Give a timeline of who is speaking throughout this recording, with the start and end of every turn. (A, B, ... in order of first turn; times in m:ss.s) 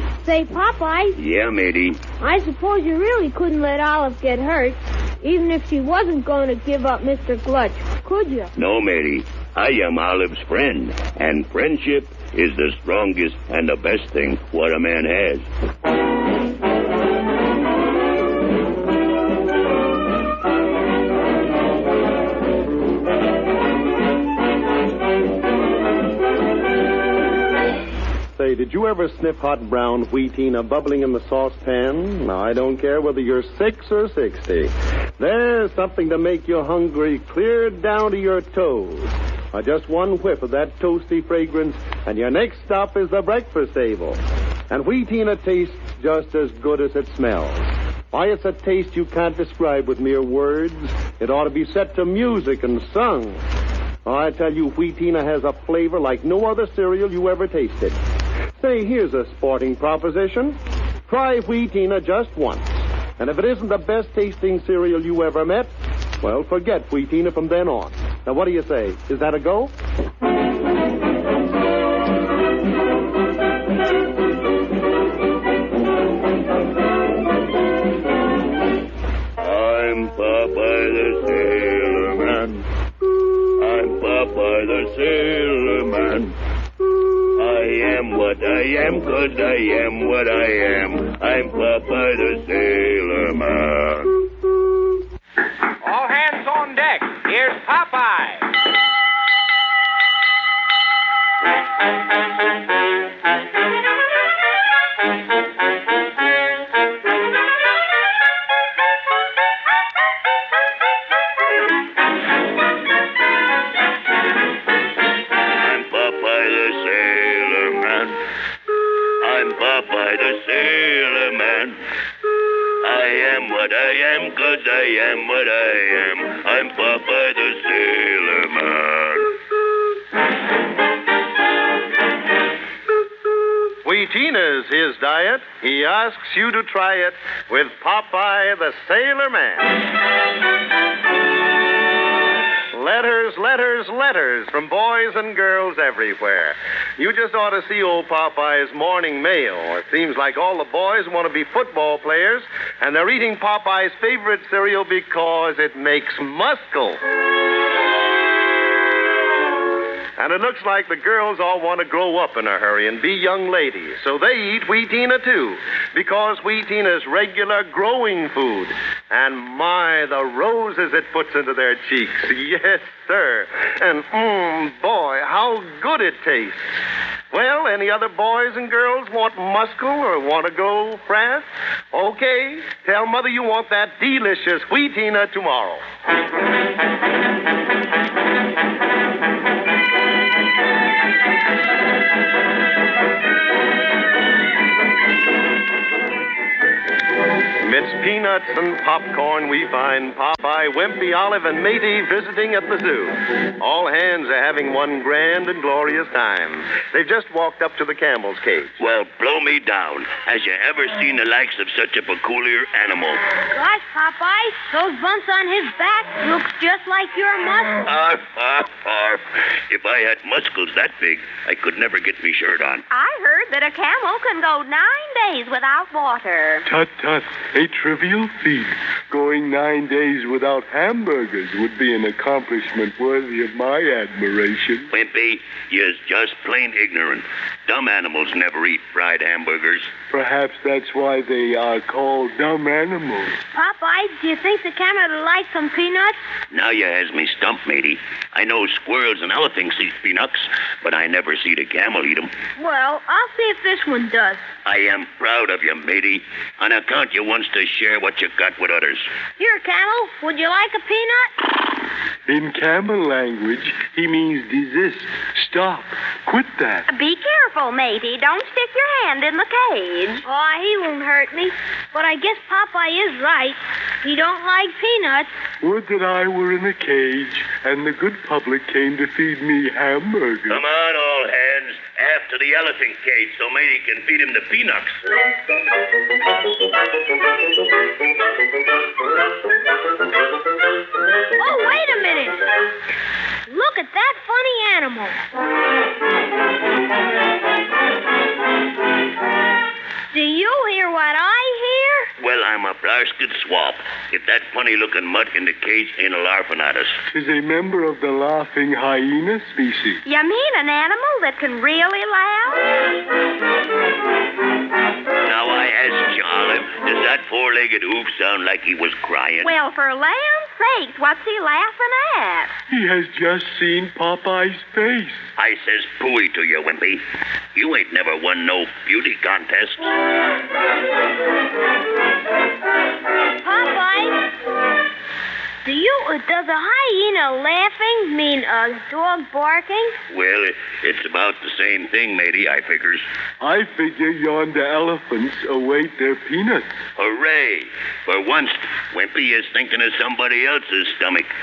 0:00.2-0:01.2 A
0:01.2-0:02.0 B
0:02.2-0:08.5 A
0:08.6-0:15.4 B
0:28.4-0:44.2 C
0:44.7-0:53.4 C
0:54.0-0:58.0 C
0:58.6-1:05.7 C
1:06.2-1:09.7 C
1:19.4-1:22.6 B
1:23.6-1:26.3 B
1:27.4-1:34.1 B
1:35.8-1:38.4 D
1:55.6-1:58.2 B
1:59.2-2:01.8 B
2:02.8-2:09.3 B
2:13.8-2:19.7 C
2:22.7-2:37.0 C
2:40.2-2:56.8 C
2:57.3-3:05.8 C
3:17.6-3:28.7 C
3:28.8-3:33.2 B
3:33.5-3:37.8 A
3:37.8-3:42.8 B
3:42.9-3:46.6 E
3:46.6-3:54.9 F
3:54.9-3:59.9 B
4:00.1-4:03.4 F
4:03.5-4:06.2 A
4:06.5-4:12.3 B
4:12.6-4:14.4 A
4:14.6-4:19.1 B
4:19.4-4:21.3 A
4:22.3-4:26.8 F
4:26.9-4:30.2 E
4:30.2-4:35.3 A
4:35.6-4:40.6 F
4:40.5-4:45.0 B
4:51.4-4:52.4 A
4:53.5-4:55.2 A
5:00.1-5:02.1 A
5:02.2-5:07.0 B
5:07.1-5:10.0 F
5:10.0-5:12.6 E
5:15.2-5:19.5 B
5:19.4-5:22.5 E
5:22.7-5:25.3 F
5:25.4-5:27.0 B
5:27.5-5:29.9 B
5:33.4-5:34.2 A
5:35.6-5:39.9 A
5:40.1-5:43.0 B
5:43.4-5:46.8 F
5:47.0-5:51.3 B